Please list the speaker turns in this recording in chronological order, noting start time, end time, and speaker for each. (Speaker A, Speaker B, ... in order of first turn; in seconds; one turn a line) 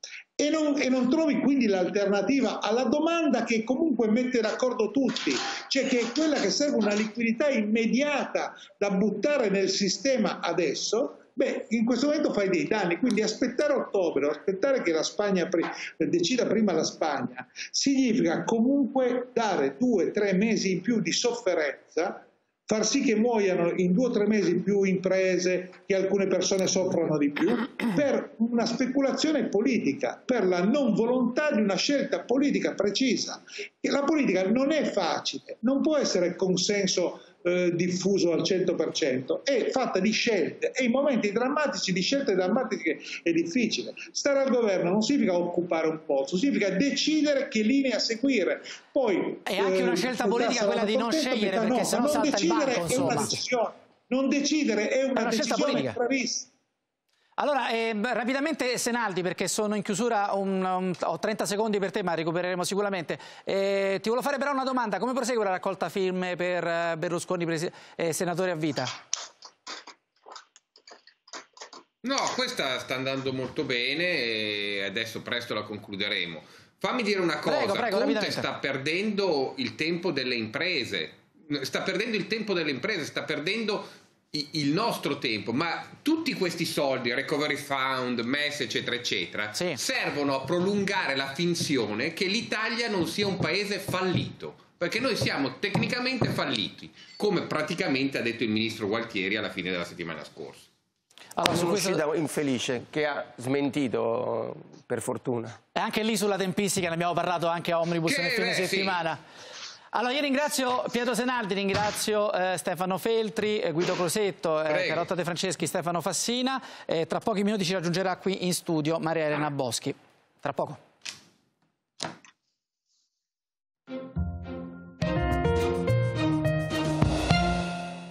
Speaker A: 0.4-56.5
Speaker B: 49.4-53.4
Speaker B: 55.1-56.0
Speaker B: 57.4-68.9
Speaker C: 72.0-100.7
Speaker B: 77.4-78.5
Speaker B: 89.5-89.8
Speaker B: 101.3-102.0
Speaker D: 101.4-105.6
Speaker B: 105.7-109.2
Speaker C: 108.0-109.0
Speaker B: 109.9-120.8
Speaker C: 114.7-115.1